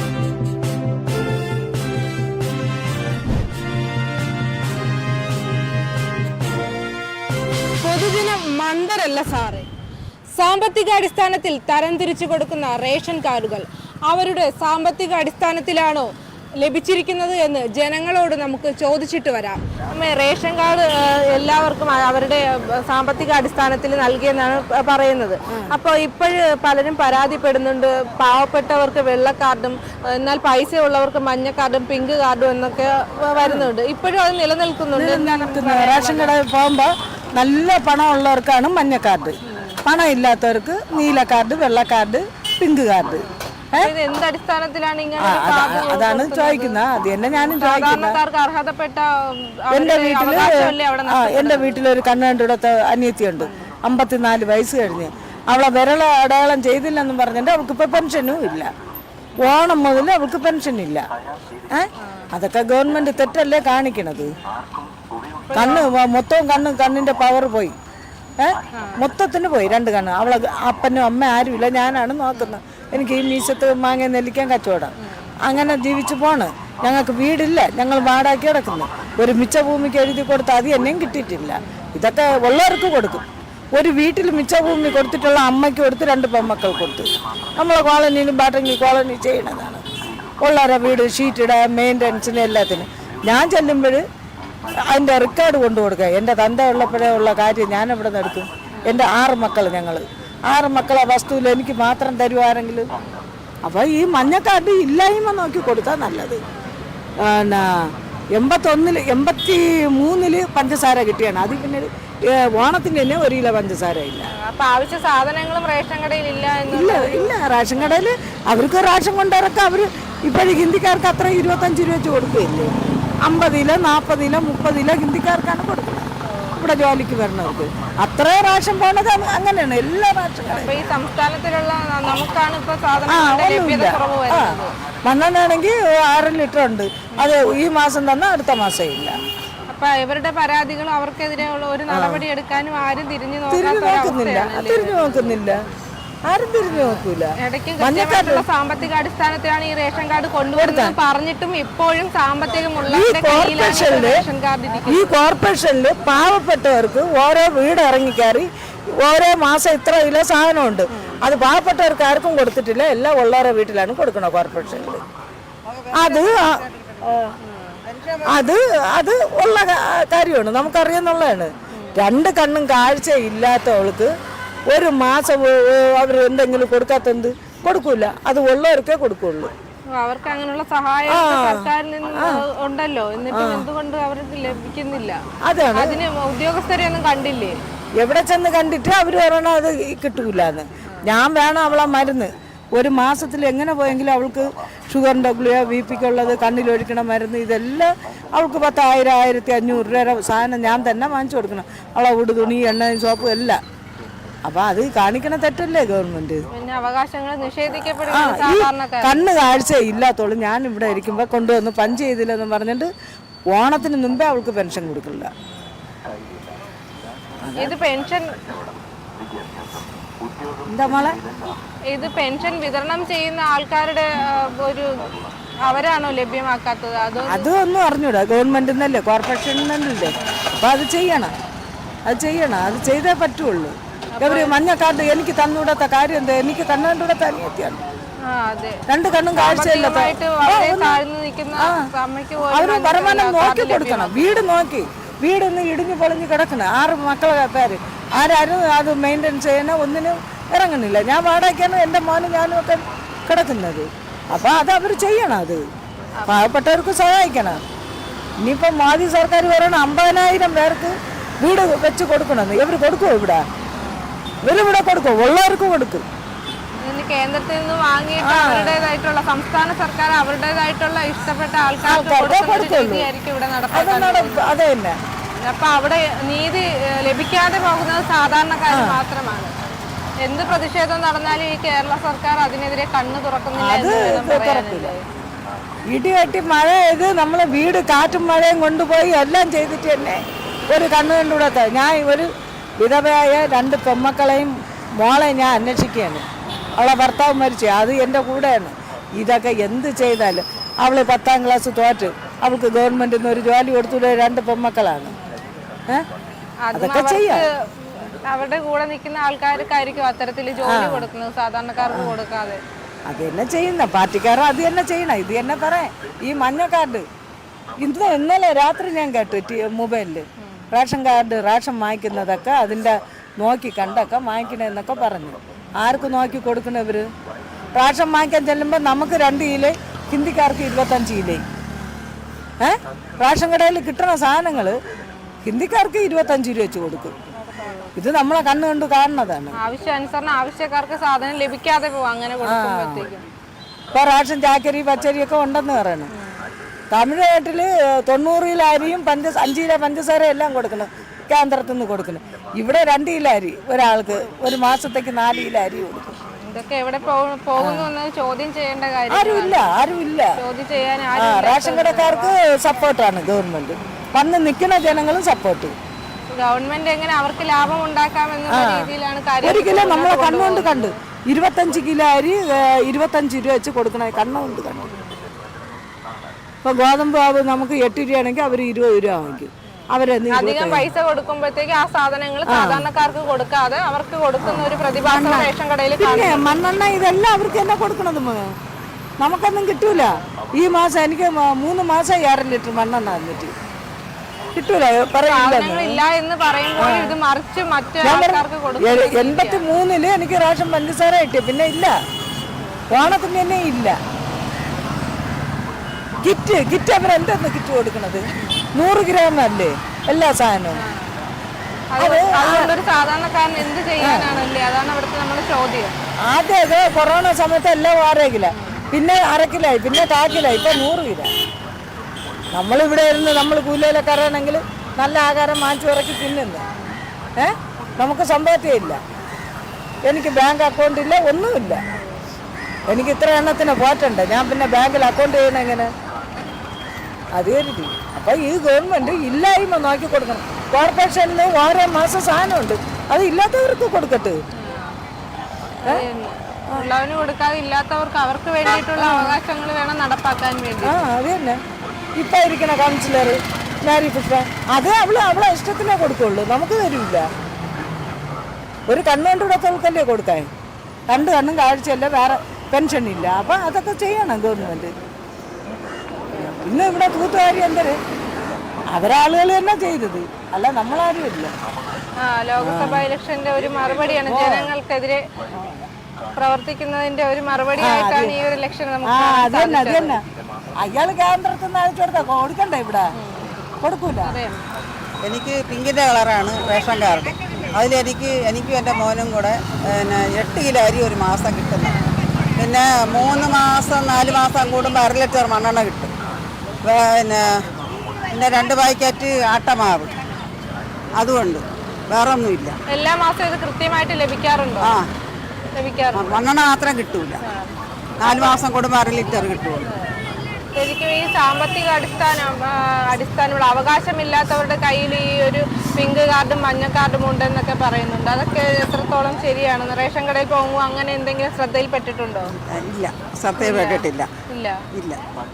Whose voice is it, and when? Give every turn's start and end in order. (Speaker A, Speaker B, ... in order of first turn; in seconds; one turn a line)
Speaker A: 7.8-9.7
Speaker A: 10.4-36.3
Speaker B: 25.5-25.7
Speaker B: 33.4-33.7
Speaker B: 35.0-43.9
Speaker A: 39.5-39.8
Speaker A: 43.2-51.9
Speaker B: 45.2-48.2
Speaker B: 49.7-58.7
Speaker A: 53.4-53.7
Speaker B: 59.4-61.1
Speaker B: 61.7-64.4
Speaker A: 62.0-62.3
Speaker A: 65.5-65.9
Speaker B: 65.5-67.8
Speaker B: 68.4-89.8
Speaker A: 68.7-69.0
Speaker B: 90.4-94.0
Speaker B: 94.8-102.9
Speaker A: 98.7-99.0
Speaker B: 103.7-106.4
Speaker B: 107.2-114.3
Speaker A: 114.3-117.9
Speaker B: 116.7-122.7
Speaker B: 123.2-130.9
Speaker A: 126.2-126.6
Speaker A: 130.5-134.7
Speaker B: 133.1-139.2
Speaker A: 137.1-137.4
Speaker A: 139.7-145.4
Speaker B: 141.9-142.2
Speaker B: 143.5-145.6
Speaker B: 146.3-148.4
Speaker A: 146.7-155.1
Speaker B: 150.6-150.9
Speaker B: 152.9-154.2
Speaker B: 154.9-165.0
Speaker A: 160.9-161.2
Speaker C: 165.7-167.3
Speaker B: 165.9-166.5
Speaker A: 167.4-167.8
Speaker C: 167.8-168.5
Speaker B: 168.3-174.1
Speaker A: 171.7-172.0
Speaker B: 174.7-179.5
Speaker A: 179.9-185.2
Speaker B: 181.1-182.4
Speaker B: 183.3-183.7
Speaker B: 185.4-186.0
Speaker A: 185.7-187.6
Speaker B: 188.0-203.6
Speaker B: 204.5-206.4
Speaker A: 206.5-209.4
Speaker B: 208.1-212.9
Speaker B: 213.5-215.3
Speaker B: 217.4-217.8
Speaker A: 217.6-218.4
Speaker B: 220.7-221.2
Speaker A: 221.9-225.1
Speaker A: 225.6-227.5
Speaker B: 227.3-231.3
Speaker B: 232.1-237.8
Speaker A: 234.2-234.6
Speaker A: 238.2-238.8
Speaker B: 238.9-241.0
Speaker A: 239.3-244.5
Speaker B: 241.6-241.9
Speaker B: 242.5-255.7
Speaker B: 256.3-257.6
Speaker B: 258.4-263.4
Speaker A: 263.8-264.1
Speaker B: 264.4-266.0
Speaker A: 266.8-274.6
Speaker B: 268.2-268.9
Speaker B: 271.8-273.1
Speaker B: 273.7-275.0
Speaker A: 275.4-279.5
Speaker B: 278.7-279.0
Speaker A: 280.2-285.0
Speaker B: 283.6-284.9
Speaker B: 285.9-296.2
Speaker B: 296.8-305.1
Speaker A: 306.6-312.6
Speaker B: 306.8-307.4
Speaker B: 310.7-311.1
Speaker B: 313.1-317.1
Speaker B: 317.8-327.1
Speaker B: 327.7-331.4
Speaker B: 332.6-334.8
Speaker B: 335.4-337.1
Speaker B: 338.0-339.6
Speaker A: 339.6-343.2
Speaker B: 342.4-343.1
Speaker B: 343.9-346.1
Speaker A: 346.1-346.4
Speaker B: 346.9-356.2
Speaker A: 356.3-362.3
Speaker B: 357.6-357.9
Speaker B: 359.1-360.4
Speaker B: 361.2-365.8
Speaker A: 366.3-370.9
Speaker B: 368.5-368.9
Speaker B: 369.4-374.9
Speaker A: 374.9-375.3
Speaker B: 376.6-380.9
Speaker A: 380.3-386.6
Speaker B: 382.5-382.9
Speaker B: 384.4-388.6
Speaker B: 389.2-393.5
Speaker A: 389.9-390.2
Speaker B: 394.6-396.0
Speaker A: 395.2-399.6
Speaker B: 396.8-397.1
Speaker B: 398.0-402.0
Speaker B: 402.9-404.0
Speaker B: 406.2-408.2
Speaker A: 408.4-408.6
Speaker B: 408.8-410.8
Speaker A: 410.8-411.2
Speaker A: 411.9-415.9
Speaker B: 412.0-412.7
Speaker B: 414.0-414.4
Speaker B: 416.3-421.3
Speaker A: 418.5-418.8
Speaker B: 422.5-426.6
Speaker B: 427.4-429.0
Speaker B: 430.1-431.9
Speaker A: 431.9-432.2
Speaker B: 432.9-435.9
Speaker B: 437.3-444.4
Speaker A: 444.6-445.0
Speaker A: 445.9-451.0
Speaker B: 449.0-449.4
Speaker B: 450.8-451.6
Speaker B: 452.2-457.3
Speaker B: 458.9-460.5
Speaker B: 461.1-464.9
Speaker B: 466.5-468.0
Speaker B: 468.9-471.5
Speaker A: 472.2-475.2
Speaker B: 472.6-473.0
Speaker B: 474.3-474.7
Speaker B: 475.6-475.9
Speaker A: 476.4-480.2
Speaker B: 477.8-478.4
Speaker B: 479.0-480.2
Speaker B: 480.8-483.1
Speaker A: 483.1-483.6
Speaker B: 483.8-484.4
Speaker A: 484.2-484.7
Speaker C: 485.2-491.9
Speaker C: 492.6-496.1
Speaker C: 496.9-497.6
Speaker C: 498.3-500.1
Speaker C: 501.2-502.8
Speaker A: 502.9-505.0
Speaker C: 504.8-505.1
Speaker A: 505.8-506.4
Speaker C: 506.2-507.4
Speaker A: 507.4-507.7
Speaker C: 508.2-509.9
Speaker A: 510.8-522.5
Speaker C: 522.7-524.3
Speaker A: 523.6-524.8
Speaker C: 525.0-525.2